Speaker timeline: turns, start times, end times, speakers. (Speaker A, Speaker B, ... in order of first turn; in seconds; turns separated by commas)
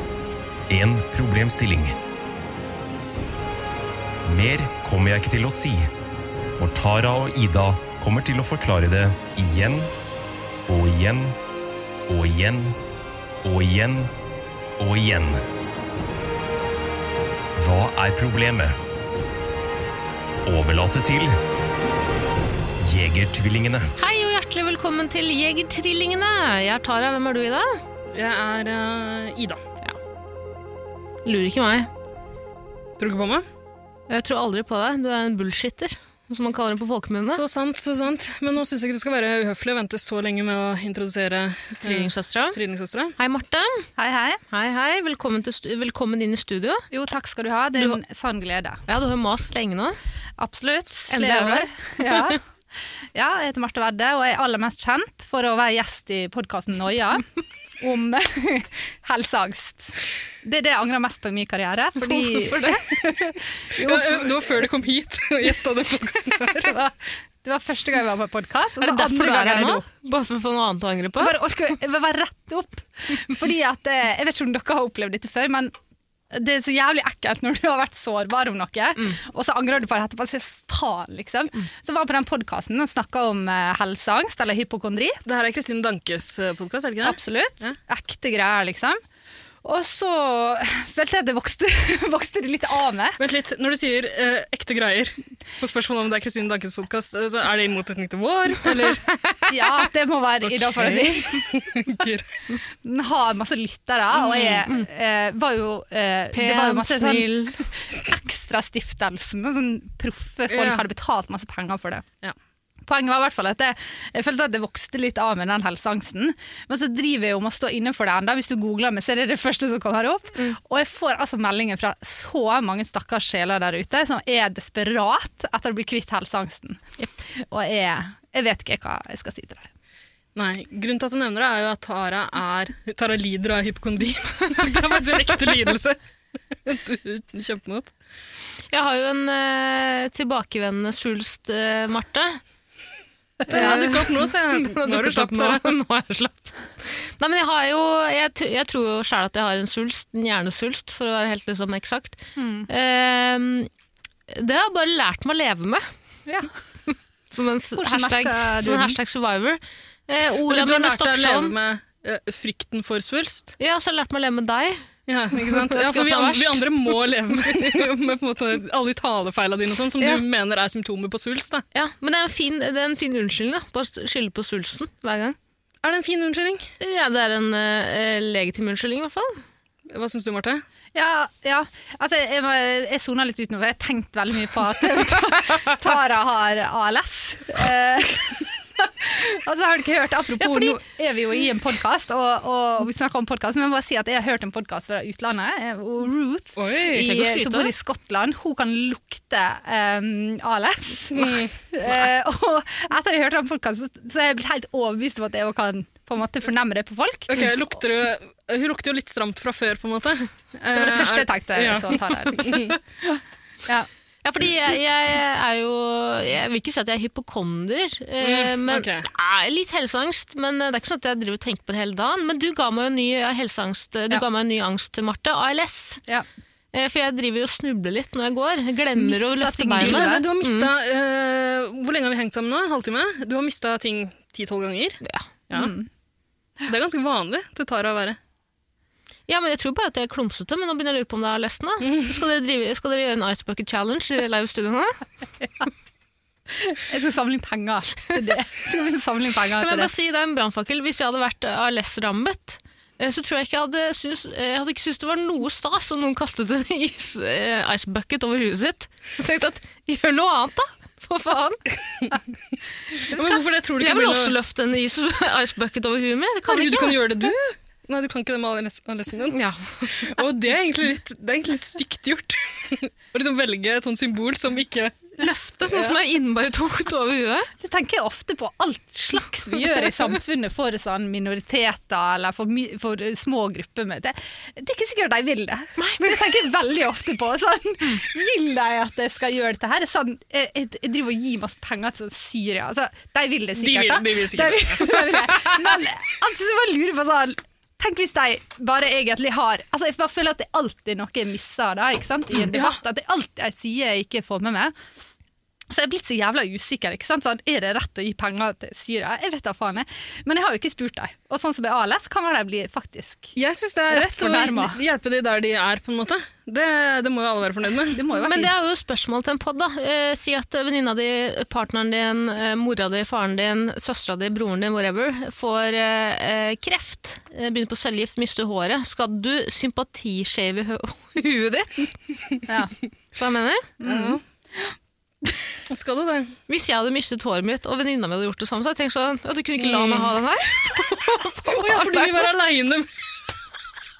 Speaker A: 0.7-2.0, Speaker A: 4.2-5.9, Speaker A: 6.5-9.9, Speaker A: 10.7-11.4, Speaker A: 12.1-12.8, Speaker A: 13.4-14.1, Speaker A: 14.8-15.4, Speaker A: 17.6-18.8, Speaker A: 20.4-21.4, Speaker A: 22.8-23.9, Speaker B: 24.0-27.8, Speaker C: 28.1-29.6, Speaker B: 31.2-31.9, Speaker C: 33.0-33.5, Speaker B: 34.1-37.4, Speaker C: 37.3-43.1, Speaker B: 41.8-42.6, Speaker B: 43.2-43.8, Speaker D: 44.0-44.4, Speaker B: 44.5-46.8, Speaker D: 46.9-48.8, Speaker B: 48.9-50.0, Speaker D: 50.4-52.4, Speaker B: 51.1-52.4, Speaker D: 53.1-57.2, Speaker D: 57.8-64.7, Speaker B: 62.0-62.8, Speaker C: 63.8-66.8, Speaker D: 66.6-69.9, Speaker B: 68.8-71.4, Speaker D: 71.2-75.7, Speaker D: 76.3-85.2, Speaker C: 85.2-87.7, Speaker D: 87.0-89.0, Speaker D: 89.6-93.2, Speaker C: 93.2-99.1, Speaker D: 99.5-102.0, Speaker C: 100.5-102.2, Speaker D: 102.7-112.0, Speaker C: 104.2-104.6, Speaker B: 106.3-107.7, Speaker C: 110.5-110.8, Speaker D: 112.8-129.7, Speaker C: 130.3-136.0, Speaker C: 136.6-137.9, Speaker B: 138.7-142.4, Speaker C: 143.5-145.7, Speaker B: 143.5-153.7, Speaker D: 143.5-143.9, Speaker D: 152.3-152.7, Speaker B: 154.3-155.8, Speaker B: 157.3-161.5, Speaker D: 157.8-159.0, Speaker C: 160.5-163.6, Speaker B: 163.6-164.8, Speaker C: 165.1-171.6, Speaker B: 165.4-166.9, Speaker B: 171.7-175.3, Speaker C: 175.8-176.7, Speaker B: 176.8-179.4, Speaker C: 179.9-180.6, Speaker D: 180.9-207.5, Speaker C: 196.6-197.1, Speaker B: 196.9-197.7, Speaker C: 201.1-201.5, Speaker C: 207.3-212.8, Speaker D: 210.7-213.9, Speaker B: 212.4-212.7, Speaker B: 214.2-226.0, Speaker C: 218.2-219.1, Speaker B: 226.7-230.7, Speaker D: 228.9-230.3, Speaker C: 229.8-235.7, Speaker D: 235.5-235.9, Speaker C: 236.6-238.2, Speaker B: 239.3-245.0, Speaker C: 241.8-242.2, Speaker D: 246.5-249.9, Speaker B: 249.6-261.6, Speaker C: 263.1-264.4, Speaker B: 263.1-267.1, Speaker C: 266.5-274.9, Speaker B: 269.3-270.1, Speaker B: 275.2-277.5, Speaker C: 275.7-276.0, Speaker D: 277.6-304.7, Speaker B: 285.8-286.0, Speaker C: 293.6-295.5, Speaker C: 302.5-302.8, Speaker D: 305.7-313.4, Speaker C: 313.4-318.0, Speaker D: 313.9-314.8, Speaker D: 317.9-318.6, Speaker B: 318.1-332.0, Speaker B: 333.1-333.7, Speaker D: 333.8-334.7, Speaker C: 333.8-334.2, Speaker C: 335.7-336.3, Speaker B: 336.5-342.3, Speaker C: 339.6-340.1, Speaker C: 341.4-342.9